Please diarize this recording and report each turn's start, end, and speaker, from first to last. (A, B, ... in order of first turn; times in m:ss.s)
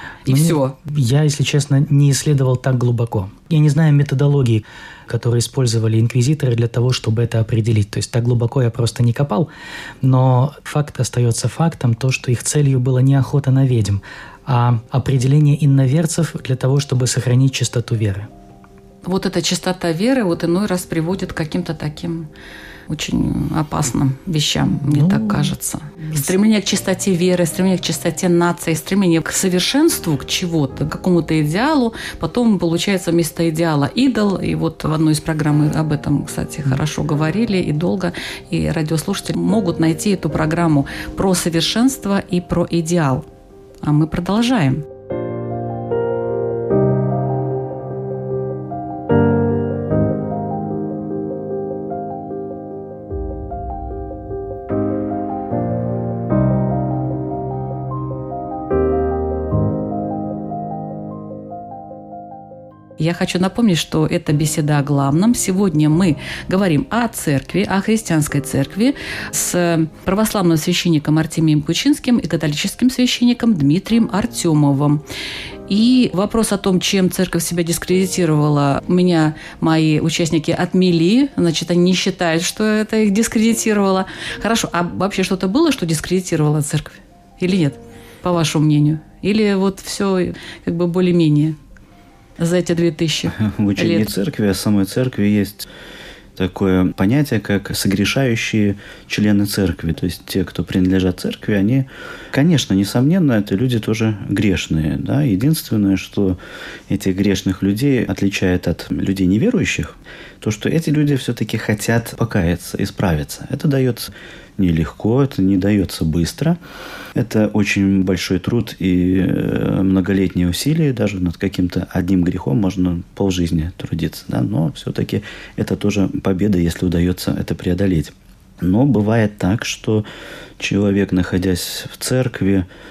0:00.3-0:00.8 A
0:00.3-0:09.5 B
0:10.0-0:18.3 B
0:19.0-0:22.3 A
0:22.9-0:43.3 A
0:24.9-0:25.5 B
0:43.8-0:44.8 A
1:03.0-1:15.0 A
1:15.7-1:31.6 A
1:32.4-1:34.1 A
1:33.3-1:35.7 C
1:36.4-1:56.6 C
1:57.2-2:10.0 C
2:10.6-2:12.7 C